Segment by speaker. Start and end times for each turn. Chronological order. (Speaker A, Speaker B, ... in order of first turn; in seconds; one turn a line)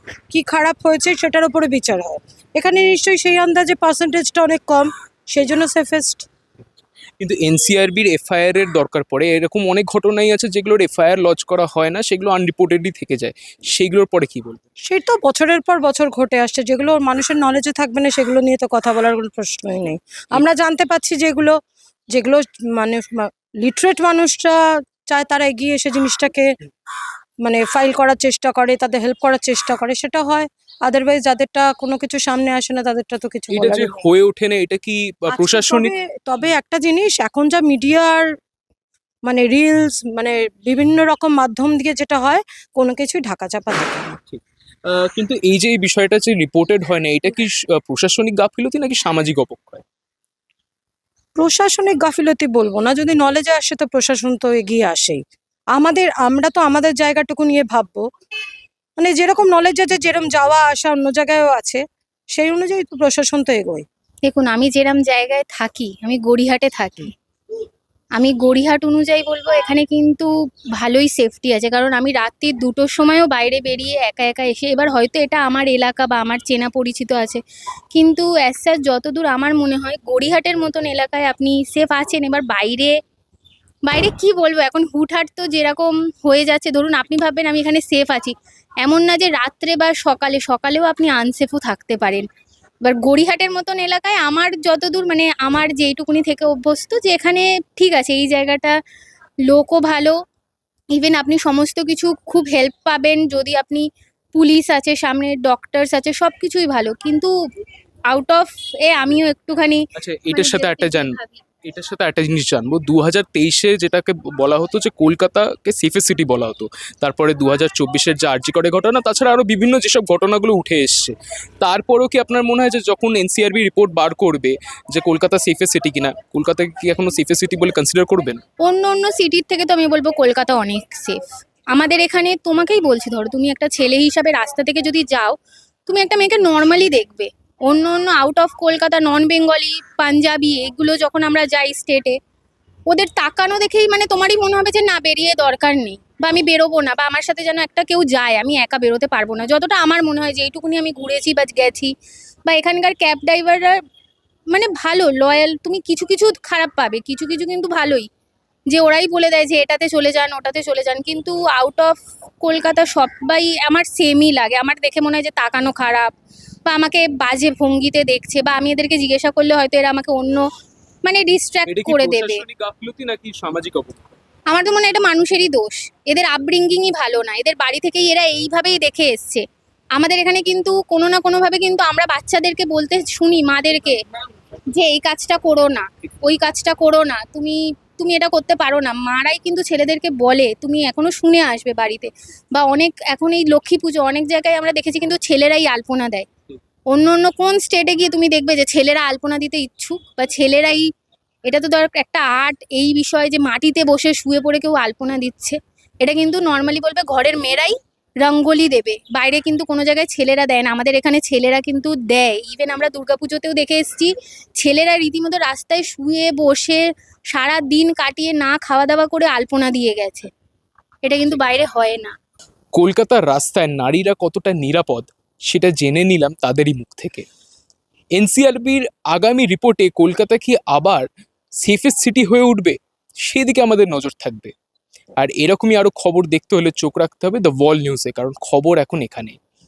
Speaker A: 0.3-6.2
Speaker B: 7.2-14.6
Speaker A: 14.8-21.6
Speaker A: 22.1-26.5
Speaker A: 27.4-34.0
Speaker B: 33.5-35.9
Speaker A: 35.3-38.2
Speaker A: 39.2-44.2
Speaker B: 44.2-49.8
Speaker A: 51.4-55.2
Speaker A: 55.8-58.0
Speaker A: 59.0-61.8
Speaker A: 62.4-63.8
Speaker C: 64.2-67.1
Speaker C: 68.2-77.4
Speaker C: 77.9-82.9
Speaker C: 83.8-92.2
Speaker C: 92.8-98.8
Speaker C: 99.5-100.1
Speaker C: 100.9-107.3
Speaker C: 108.1-111.4
Speaker B: 110.0-128.4
Speaker C: 128.6-135.3
Speaker C: 135.9-142.2
Speaker C: 142.9-151.9
Speaker C: 152.5-153.8
Speaker C: 154.5-158.1
Speaker C: 158.7-166.1
Speaker C: 166.7-170.4
Speaker C: 171.0-172.4
Speaker B: 171.7-174.1
Speaker C: 174.5-184.0
Speaker C: 184.7-196.3
Speaker C: 196.9-200.9
Speaker C: 201.4-220.3
Speaker C: 221.0-222.1
Speaker B: 222.7-227.2
Speaker B: 228.1-231.1
Speaker B: 231.6-234.5
Speaker B: 235.2-239.4